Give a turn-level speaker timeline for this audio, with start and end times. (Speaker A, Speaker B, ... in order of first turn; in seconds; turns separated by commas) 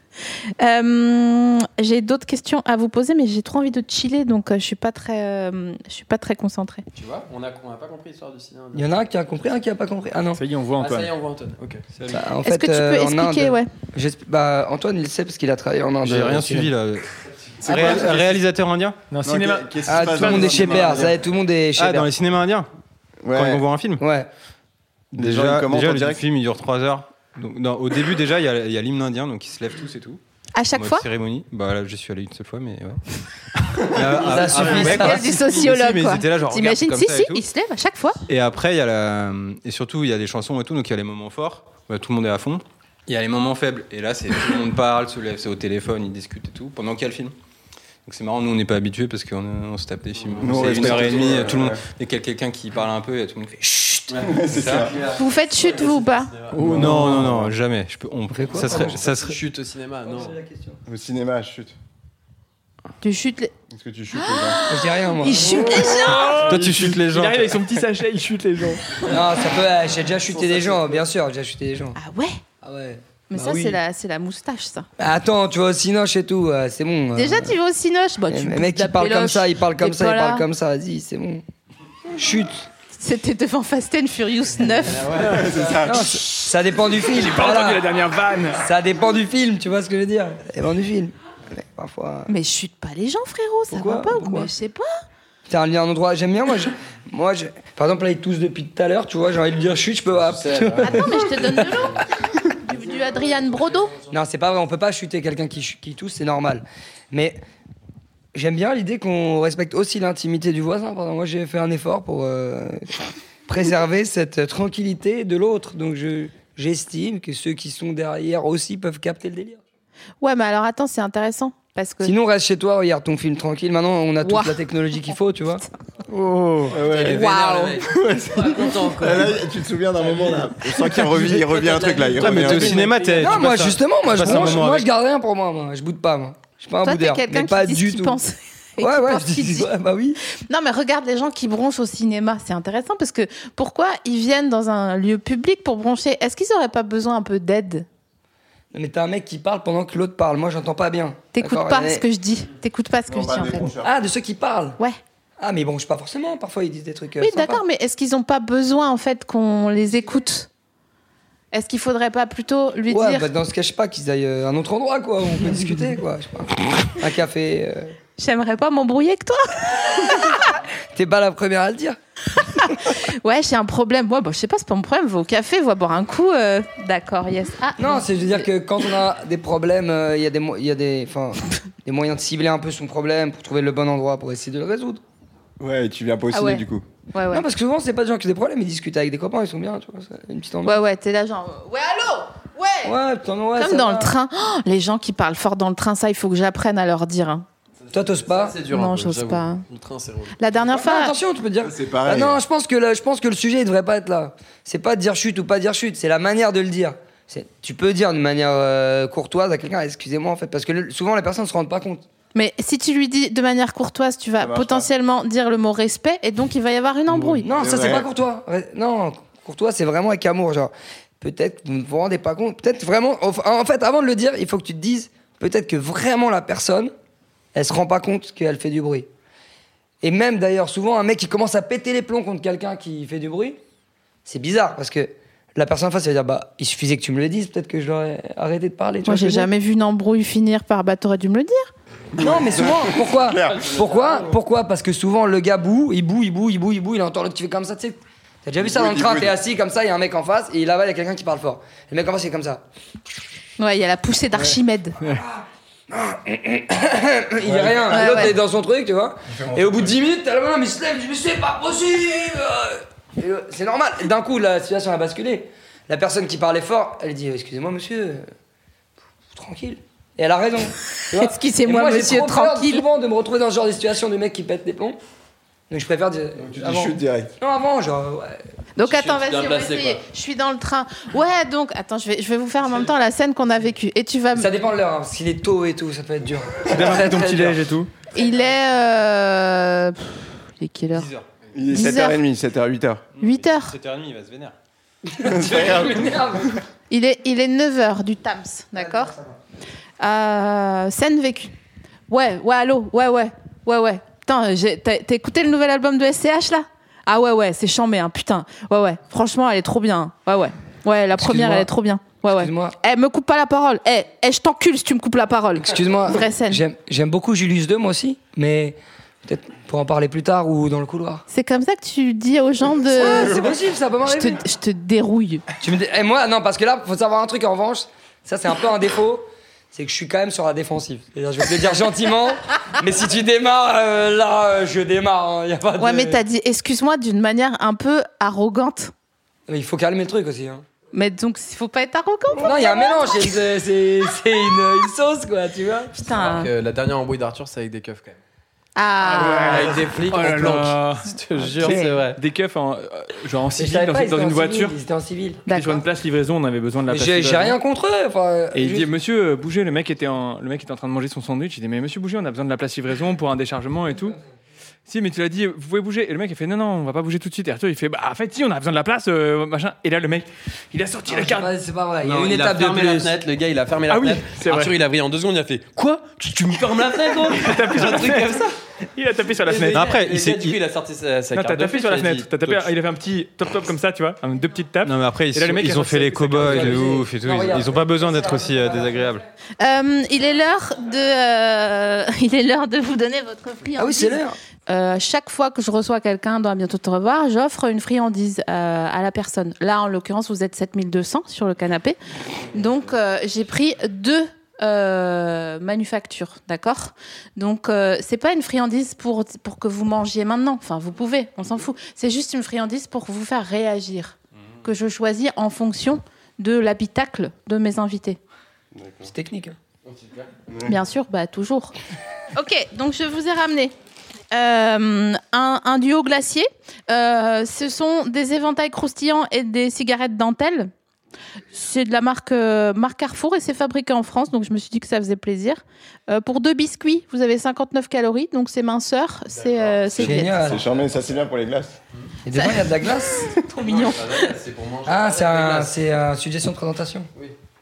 Speaker A: 0.6-6.8, Speaker B: 6.9-8.9, Speaker C: 8.7-10.4, Speaker D: 10.3-11.1, Speaker B: 10.7-11.8, Speaker E: 11.9-12.2, Speaker C: 12.1-16.7, Speaker A: 12.4-13.7, Speaker E: 16.0-19.0, Speaker F: 17.6-18.4, Speaker D: 19.1-21.0, Speaker F: 19.2-21.2, Speaker C: 19.9-22.1, Speaker E: 21.8-22.7, Speaker F: 23.2-23.6, Speaker E: 23.3-24.0, Speaker C: 24.0-24.3, Speaker F: 25.1-26.2, Speaker E: 25.1-30.2, Speaker A: 30.5-31.1, Speaker E: 30.7-33.0, Speaker E: 33.9-37.4, Speaker F: 34.0-34.8, Speaker C: 34.2-35.3, Speaker A: 34.5-38.2, Speaker E: 38.3-47.3, Speaker E: 48.0-53.6, Speaker B: 50.1-51.6, Speaker F: 50.4-51.8, Speaker B: 54.1-57.0, Speaker F: 54.2-55.0, Speaker E: 54.5-54.9, Speaker A: 55.1-56.3, Speaker F: 56.5-57.5, Speaker E: 56.6-59.4, Speaker D: 56.8-57.2, Speaker C: 58.3-59.0, Speaker B: 58.6-60.4, Speaker C: 60.0-60.8, Speaker F: 60.9-61.7, Speaker A: 63.0-63.5, Speaker F: 63.7-64.7, Speaker A: 64.1-66.5, Speaker C: 64.7-66.3, Speaker D: 65.7-69.0, Speaker E: 66.4-67.8, Speaker C: 69.0-72.0, Speaker B: 70.2-71.0, Speaker A: 72.0-72.4, Speaker C: 72.6-73.8, Speaker A: 73.3-74.9, Speaker C: 75.0-77.5, Speaker A: 77.1-80.5, Speaker C: 78.3-81.4, Speaker C: 82.2-82.6, Speaker A: 82.9-85.3, Speaker B: 84.6-85.8, Speaker F: 85.1-86.2, Speaker C: 85.8-87.9, Speaker D: 87.1-88.7, Speaker C: 88.5-92.3, Speaker A: 92.3-94.9, Speaker C: 93.7-94.5, Speaker C: 95.5-101.8, Speaker B: 100.1-102.0, Speaker A: 100.8-104.0, Speaker C: 104.1-107.4, Speaker C: 108.3-112.9, Speaker C: 113.5-119.6, Speaker A: 120.2-122.1, Speaker C: 122.0-125.6, Speaker A: 124.2-124.6, Speaker C: 126.5-127.2, Speaker F: 126.7-127.2, Speaker B: 126.7-129.4, Speaker A: 127.1-127.8, Speaker F: 127.8-133.0, Speaker B: 129.9-133.7, Speaker E: 132.2-134.9, Speaker C: 133.2-138.2, Speaker A: 136.8-139.7, Speaker C: 138.8-140.2, Speaker A: 140.5-147.8, Speaker C: 148.7-152.0, Speaker A: 151.3-153.7, Speaker F: 153.1-153.9, Speaker C: 153.8-154.8, Speaker C: 155.4-157.6, Speaker A: 157.2-160.5, Speaker A: 161.5-163.3, Speaker C: 162.9-167.9, Speaker A: 168.2-170.4, Speaker C: 170.9-172.0, Speaker A: 172.3-178.5, Speaker C: 177.8-185.0, Speaker F: 185.6-186.8, Speaker A: 186.3-187.4, Speaker C: 187.3-190.8, Speaker A: 190.6-192.9, Speaker C: 192.8-194.1, Speaker A: 193.6-197.4, Speaker B: 197.8-200.8, Speaker C: 197.9-198.6, Speaker A: 198.7-199.6, Speaker A: 200.4-201.2, Speaker C: 200.8-212.0, Speaker F: 201.6-202.4, Speaker A: 212.3-217.5, Speaker F: 214.4-214.9, Speaker F: 217.3-218.1, Speaker C: 217.4-226.9, Speaker C: 227.5-229.1, Speaker C: 230.0-233.6, Speaker C: 234.2-239.5, Speaker A: 239.1-241.7, Speaker F: 242.2-243.7, Speaker C: 242.2-252.6, Speaker B: 243.5-244.3, Speaker F: 248.6-249.4, Speaker A: 253.6-255.0, Speaker C: 255.0-268.2, Speaker F: 257.4-258.1, Speaker A: 257.9-258.4, Speaker F: 259.3-259.9, Speaker C: 269.3-275.0, Speaker A: 271.1-272.8, Speaker C: 275.7-278.4, Speaker F: 276.4-277.3, Speaker A: 278.8-284.5, Speaker B: 278.8-280.0, Speaker C: 284.3-287.6, Speaker D: 286.7-287.9, Speaker A: 288.1-291.1, Speaker E: 290.9-291.3, Speaker F: 291.5-293.1, Speaker A: 291.7-292.2, Speaker E: 293.1-294.6, Speaker A: 293.2-293.7, Speaker C: 295.1-296.6, Speaker F: 295.2-296.4, Speaker A: 296.9-299.1, Speaker C: 298.8-299.3, Speaker A: 300.0-301.5, Speaker A: 302.1-316.6, Speaker C: 311.1-311.7, Speaker C: 312.3-312.8, Speaker C: 315.6-321.2, Speaker A: 321.3-323.5, Speaker C: 322.9-324.4, Speaker A: 324.0-325.4, Speaker C: 325.6-336.2, Speaker A: 335.8-338.9, Speaker C: 339.5-340.6, Speaker A: 340.9-343.4, Speaker C: 342.3-345.9, Speaker A: 345.9-346.5, Speaker B: 346.1-348.2, Speaker A: 348.8-349.8, Speaker B: 349.1-352.2, Speaker D: 349.2-354.8, Speaker C: 351.6-351.9, Speaker C: 353.5-355.5, Speaker D: 355.5-357.6, Speaker A: 355.5-355.8, Speaker C: 356.9-358.9, Speaker D: 358.5-364.2, Speaker D: 364.9-371.5, Speaker C: 371.1-373.1, Speaker B: 372.0-378.5, Speaker D: 373.9-374.8, Speaker D: 377.3-379.9, Speaker B: 379.3-382.7, Speaker E: 379.7-380.6, Speaker D: 381.3-387.0, Speaker E: 384.8-389.2, Speaker C: 386.4-387.8, Speaker A: 389.6-402.0, Speaker C: 393.8-394.4, Speaker A: 402.5-418.2, Speaker F: 418.7-419.1, Speaker C: 419.0-419.6, Speaker B: 419.8-420.3, Speaker F: 420.5-420.8, Speaker A: 420.6-421.7, Speaker A: 422.3-423.7, Speaker A: 424.3-430.7, Speaker A: 431.5-440.6, Speaker B: 439.3-441.2, Speaker F: 440.0-441.7, Speaker C: 440.0-440.6, Speaker C: 442.2-443.3, Speaker A: 442.3-444.4, Speaker B: 443.5-445.7, Speaker C: 444.9-447.1